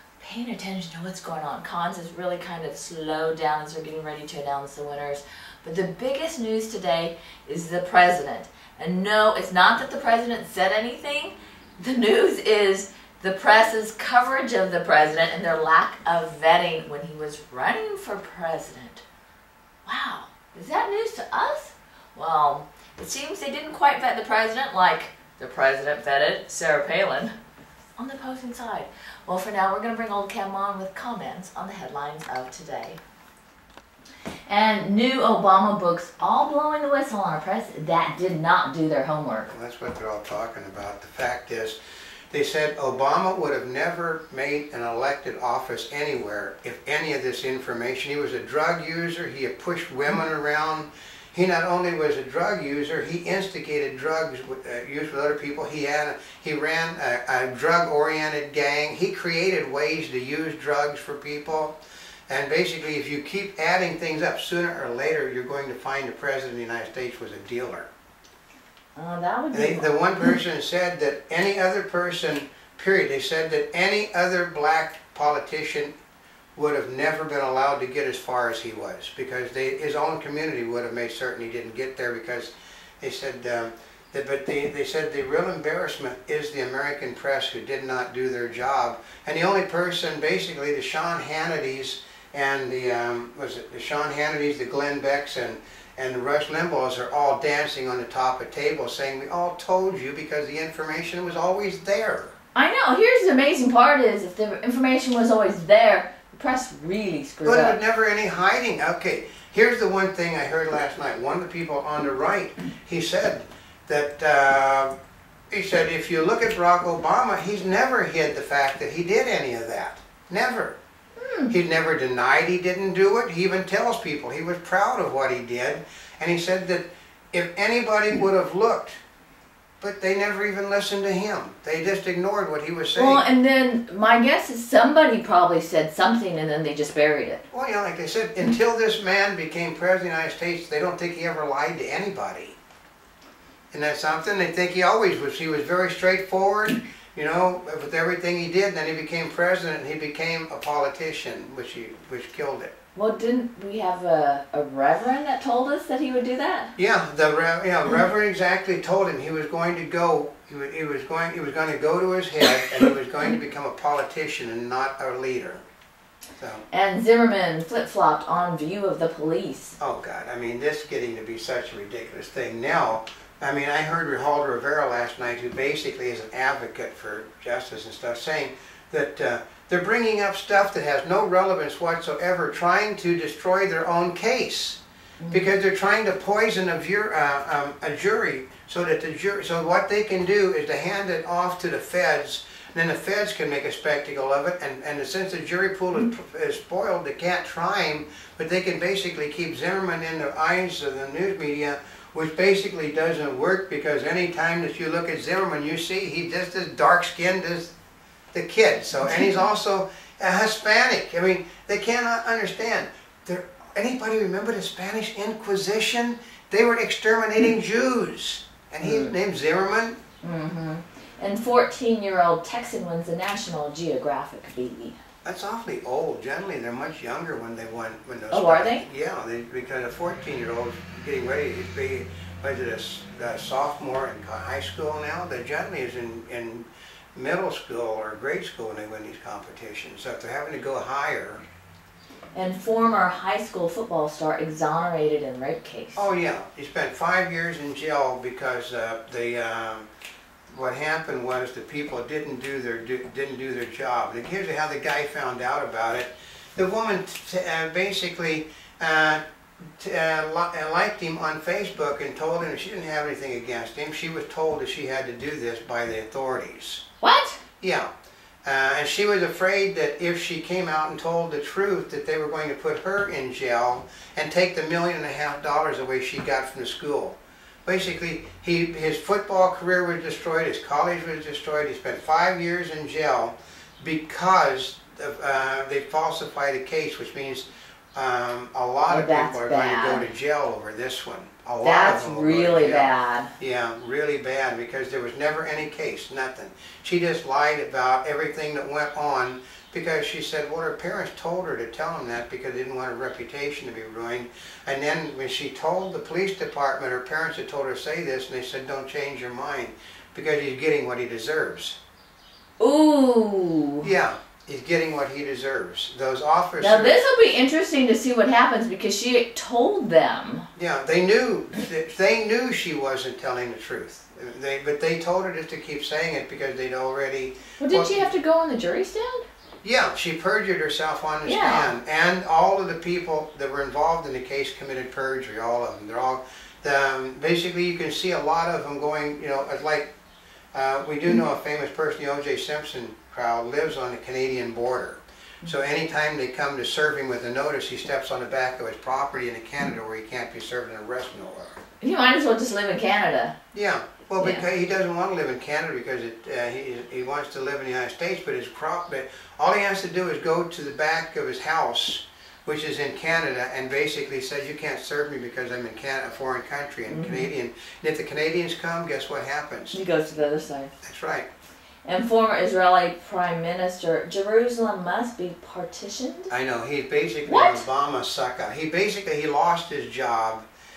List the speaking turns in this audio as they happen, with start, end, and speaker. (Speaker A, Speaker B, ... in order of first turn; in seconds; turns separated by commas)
Speaker A: 0.2-19.0, Speaker A: 19.8-27.3, Speaker A: 28.0-33.0, Speaker A: 34.5-39.5, Speaker B: 39.5-41.8, Speaker B: 42.3-61.8, Speaker B: 62.3-67.9, Speaker A: 69.0-69.9, Speaker B: 69.5-75.9, Speaker B: 76.6-102.3, Speaker A: 102.5-107.8, Speaker B: 107.4-114.9, Speaker B: 115.5-120.8, Speaker A: 121.2-121.5, Speaker B: 121.5-129.0, Speaker B: 129.8-133.2, Speaker A: 132.9-137.4, Speaker B: 137.5-142.6, Speaker B: 143.7-152.7, Speaker A: 153.0-156.7, Speaker B: 156.8-165.6, Speaker B: 166.4-166.6, Speaker A: 166.7-169.8, Speaker B: 169.8-207.7, Speaker A: 185.2-185.5, Speaker B: 208.3-220.0, Speaker A: 218.8-219.1, Speaker A: 220.2-225.0, Speaker B: 225.2-241.4, Speaker A: 228.3-228.8, Speaker A: 242.3-246.1, Speaker B: 246.0-249.9, Speaker B: 250.5-259.2, Speaker B: 259.8-266.8, Speaker A: 267.0-267.4, Speaker B: 267.6-267.9, Speaker B: 268.4-311.8, Speaker A: 288.9-290.1, Speaker A: 291.6-293.3, Speaker A: 312.6-313.9, Speaker B: 313.8-317.0, Speaker A: 316.6-320.5, Speaker B: 320.5-328.1, Speaker A: 327.6-329.2, Speaker B: 329.6-339.9, Speaker A: 331.2-331.7, Speaker B: 340.5-351.6, Speaker A: 351.8-353.4, Speaker B: 353.5-369.8, Speaker A: 354.2-354.4, Speaker A: 366.9-367.3, Speaker A: 369.7-370.7, Speaker B: 370.8-371.3, Speaker A: 371.9-376.3, Speaker B: 376.3-380.5, Speaker A: 377.2-377.6